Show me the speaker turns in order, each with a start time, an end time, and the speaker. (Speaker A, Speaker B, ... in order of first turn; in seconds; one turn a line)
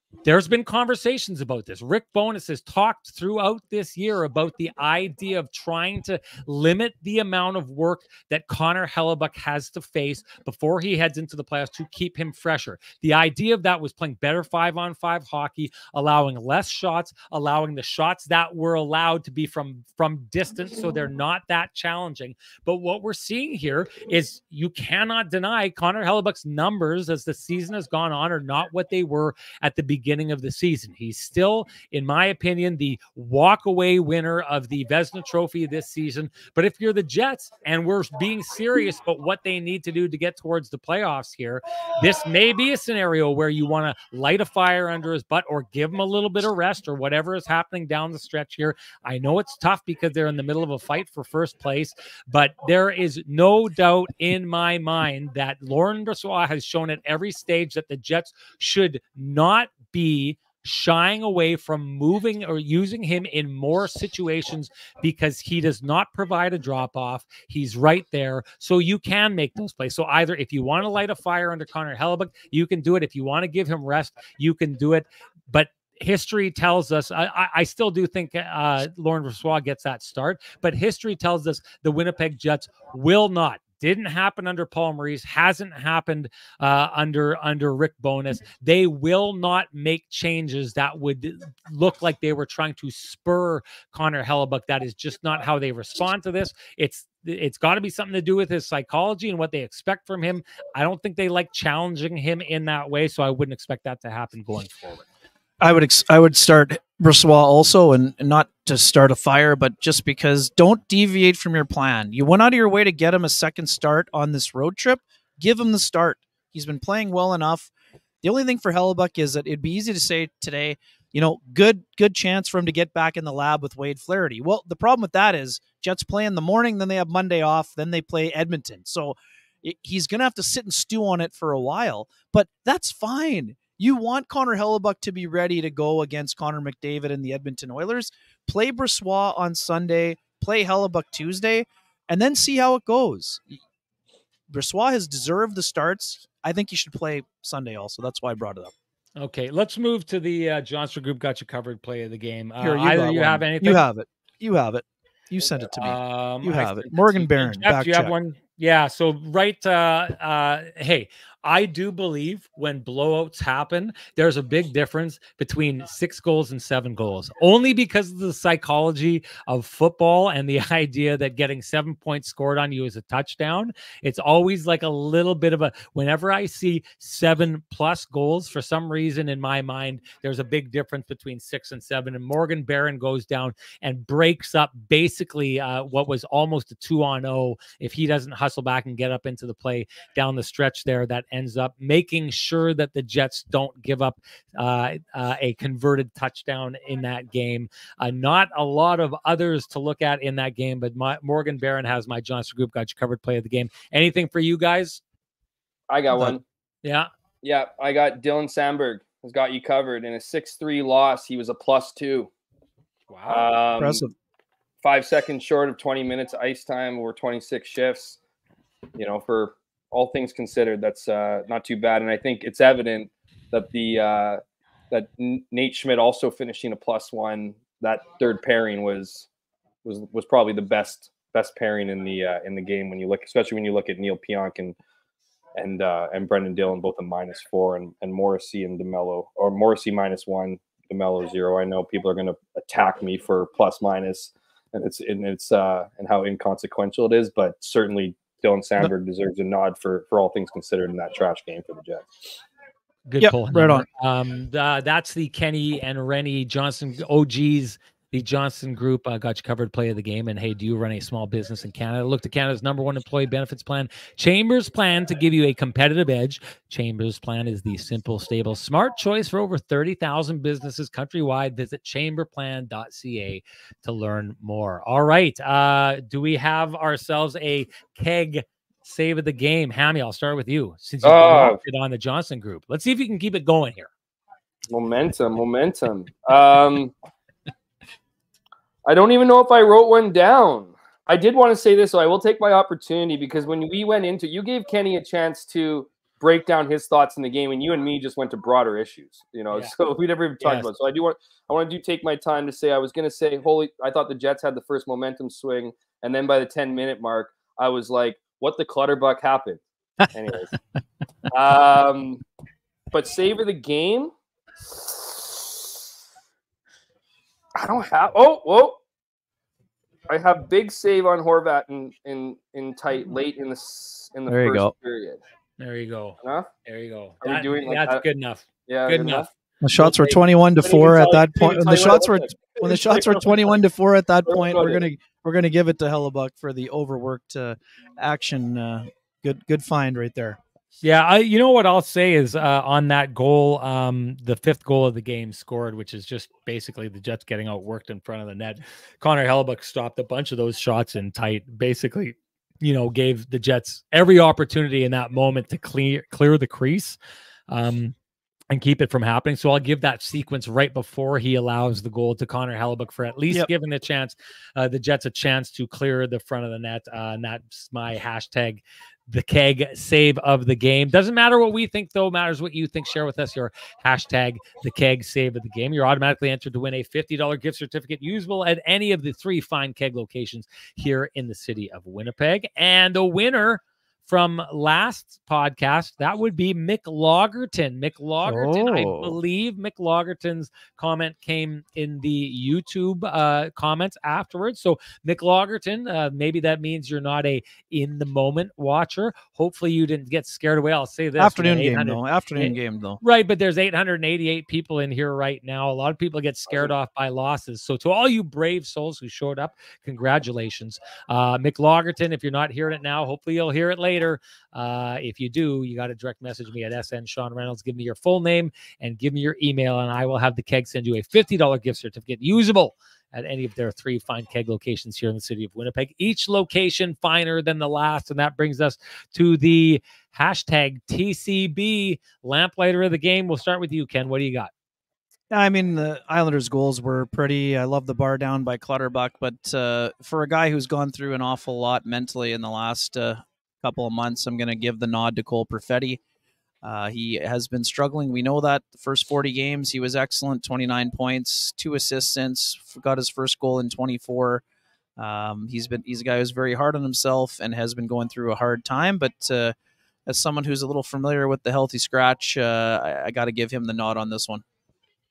Speaker A: 0.2-105.0
Speaker B: 105.6-117.7
Speaker B: 118.2-143.6
Speaker B: 144.5-148.7
Speaker A: 149.2-153.8
Speaker B: 152.6-158.1
Speaker A: 155.7-205.0
Speaker C: 205.9-206.4
Speaker A: 206.8-207.1
Speaker C: 207.4-212.3
Speaker A: 213.1-213.4
Speaker C: 213.3-214.0
Speaker B: 213.8-214.1
Speaker C: 214.8-218.2
Speaker C: 218.9-224.4
Speaker C: 224.9-229.3
Speaker C: 229.8-234.8
Speaker C: 235.6-252.1
Speaker A: 253.1-283.9
Speaker B: 253.2-253.9
Speaker C: 281.0-281.6
Speaker C: 284.7-286.9
Speaker C: 288.9-310.5
Speaker A: 300.4-300.7
Speaker C: 311.3-312.2
Speaker C: 312.9-315.8
Speaker C: 317.6-318.8
Speaker C: 320.1-325.2
Speaker B: 324.3-324.7
Speaker A: 325.6-329.3
Speaker C: 326.2-326.5
Speaker C: 327.2-328.0
Speaker C: 328.7-333.6
Speaker B: 329.6-340.4
Speaker C: 334.2-334.9
Speaker A: 340.8-357.0
Speaker A: 357.5-357.9
Speaker A: 358.5-434.5
Speaker B: 388.2-389.1
Speaker B: 401.2-403.0
Speaker B: 435.3-446.0
Speaker B: 446.6-454.4
Speaker B: 455.0-459.5
Speaker B: 460.1-464.4